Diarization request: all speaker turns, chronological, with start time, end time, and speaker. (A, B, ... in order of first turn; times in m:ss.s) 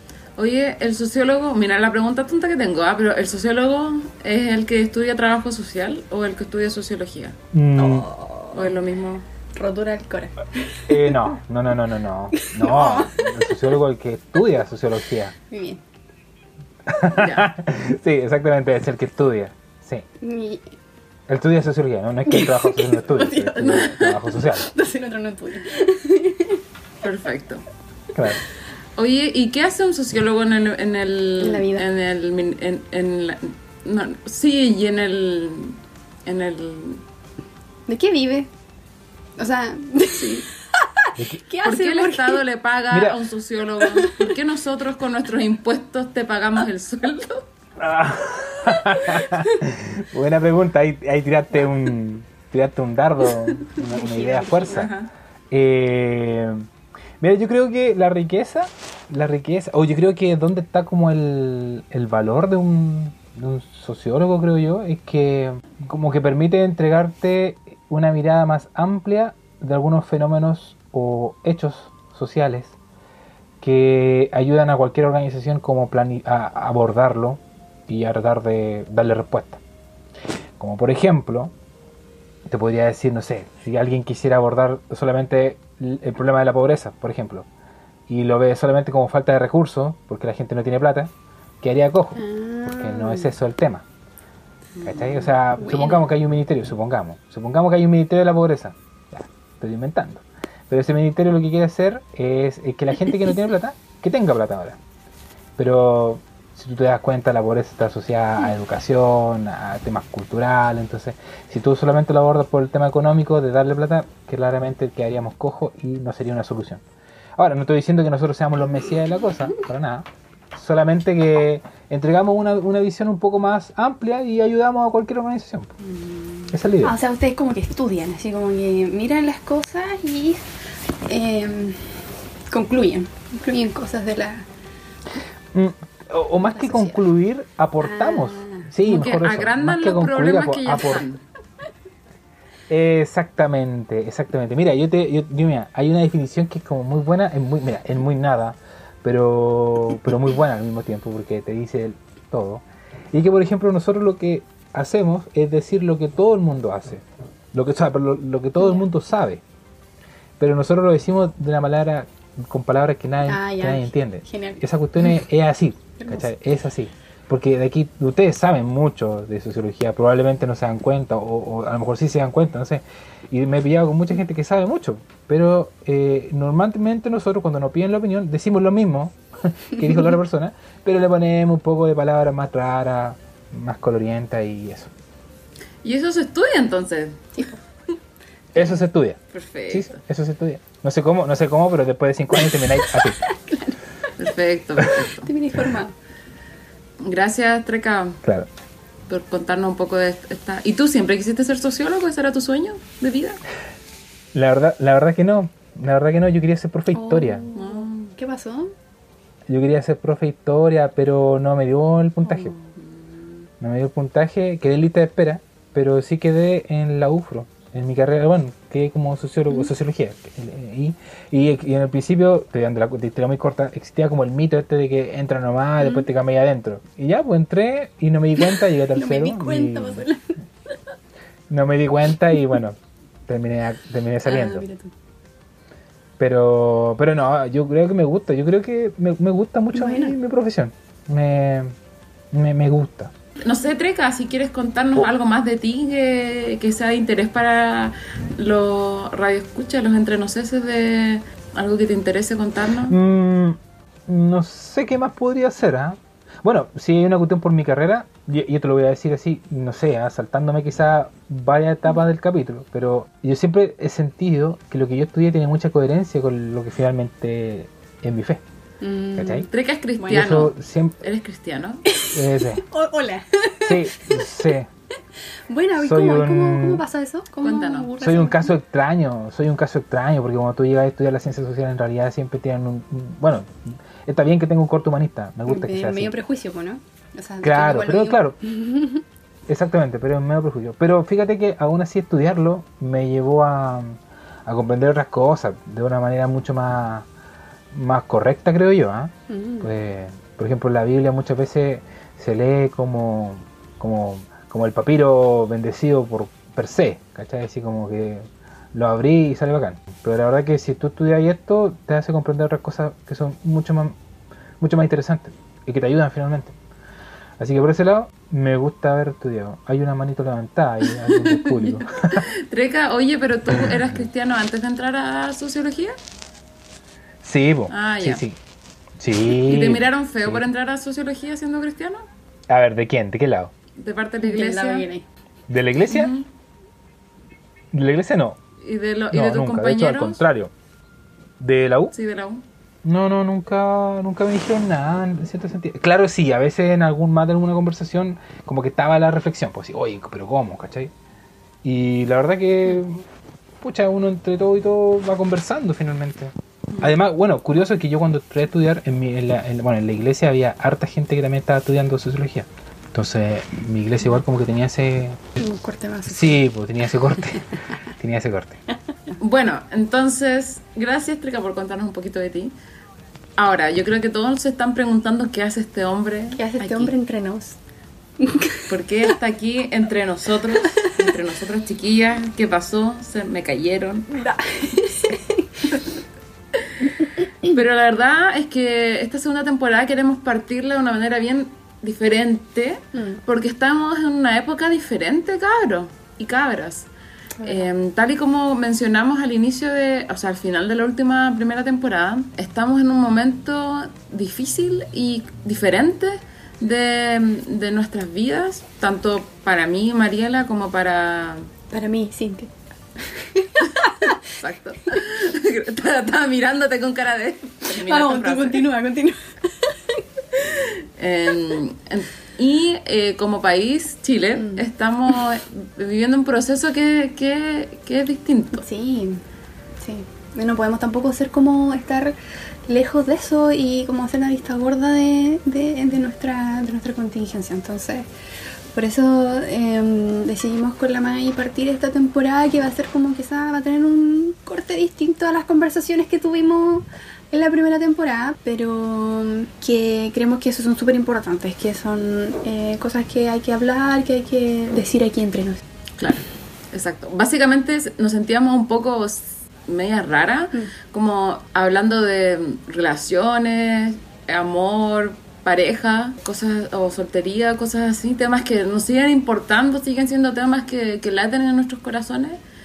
0:00.4-0:07.4 A
0:07.5-0:08.1 B
0:07.8-0:08.7 C
0:08.5-0:09.2 A
0:09.5-0:11.2 C
0:10.9-0:15.3 B
0:12.4-0:13.6 C
0:15.5-0:15.8 C
0:16.9-0:20.0 B
0:17.1-0:17.5 A
0:20.2-0:20.6 C
0:21.3-0:24.7 B
0:22.3-0:26.6 C
0:23.7-0:24.0 A
0:27.0-0:27.6 A
0:28.1-0:28.4 B
0:29.0-0:37.0 A
0:31.4-0:31.8 C
0:37.9-0:38.5 C
0:39.4-0:42.4 C
0:40.1-0:40.4 A
0:41.6-0:47.4 A
0:42.9-0:43.2 B
0:43.8-0:44.2 C
0:47.8-0:54.9 B
0:49.1-0:49.4 A
0:53.8-0:54.8 C
0:54.6-0:55.1 A
0:55.5-0:56.7 B
0:57.2-1:12.8 B
1:13.6-1:19.6 B
1:20.6-1:21.5 B
1:22.5-1:27.5 B
1:28.1-1:33.8 B
1:32.2-1:33.3 C
1:34.8-1:35.3 A
1:34.8-1:44.8 B
1:35.6-1:36.1 C
1:45.6-1:56.8 B
1:57.4-2:05.7 B
2:05.8-2:10.4 C
2:06.5-2:07.0 B
2:11.0-2:14.4 C
2:15.5-2:21.0 B
2:16.5-2:17.0 C
2:17.8-2:18.7 C
2:18.8-2:21.2 A
2:22.7-2:39.4 B
2:38.6-2:38.9 C
2:40.4-3:04.9 B
2:43.2-2:44.6 C
2:46.0-2:46.3 C
3:05.8-3:07.3 A
3:08.5-3:13.2 B
3:09.3-3:10.0 A
3:12.5-3:13.8 C
3:14.2-3:15.3 A
3:15.2-3:15.9 C
3:17.0-3:18.2 A
3:19.1-3:23.4 A
3:24.3-3:27.4 B
3:26.9-3:28.7 C
3:27.5-3:28.1 A
3:29.5-3:32.5 B
3:32.2-3:33.0 A
3:33.6-3:50.0 B
3:45.8-3:46.1 C
3:48.5-3:50.7 C
3:51.5-3:54.6 B
3:54.2-3:54.9 C
3:56.2-4:01.7 B
3:59.7-4:00.2 C
4:02.3-4:03.1 B
4:03.4-4:13.0 A
4:12.9-4:28.4 B
4:28.8-4:29.5 C
4:29.2-4:29.5 B
4:29.5-4:31.8 A
4:30.1-4:31.0 B
4:31.9-4:34.4 C
4:32.1-4:32.6 B
4:33.6-4:34.7 B
4:35.5-4:38.5 C
4:35.8-4:36.8 B
4:37.4-4:37.9 A
4:38.0-4:46.1 B
4:45.5-4:49.0 C
4:47.4-4:48.4 B
4:49.5-4:57.1 B
4:57.7-5:14.0 B
4:59.3-4:59.7 C
5:14.6-5:16.6 B
5:17.4-5:22.2 B
5:21.0-5:25.9 A
5:23.5-5:24.0 B
5:27.2-5:28.4 B
5:27.7-5:28.2 A
5:29.0-5:30.4 B
5:29.3-5:32.0 A
5:32.5-5:33.5 B
5:33.8-5:34.8 A
5:34.2-5:35.0 C
5:35.5-5:36.1 B
5:35.9-5:36.2 A
5:37.7-5:38.4 B
5:38.6-5:40.2 A
5:39.1-5:40.5 B
5:41.4-5:41.9 B
5:41.9-5:42.4 A
5:42.8-5:50.9 B
5:51.6-5:53.0 B
5:53.6-6:05.2 B
6:05.4-6:06.4 C
6:06.0-6:07.4 B
6:08.0-6:08.6 B
6:09.2-6:12.5 A
6:13.4-6:16.9 A
6:16.4-6:17.6 C
6:18.2-6:19.1 C
6:18.7-6:24.1 A
6:24.1-6:25.5 C
6:27.4-6:36.9 A
6:32.9-6:33.2 C
6:37.4-6:37.7 C
6:37.4-6:51.5 A
6:51.7-6:54.2 C
6:54.0-6:58.6 A
6:57.7-7:00.0 C
7:00.5-7:08.6 A
7:04.4-7:04.6 C
7:08.6-7:09.2 C
7:09.8-7:12.2 C
7:12.7-7:18.1 C
7:18.7-7:35.6 C
7:36.0-7:52.4 A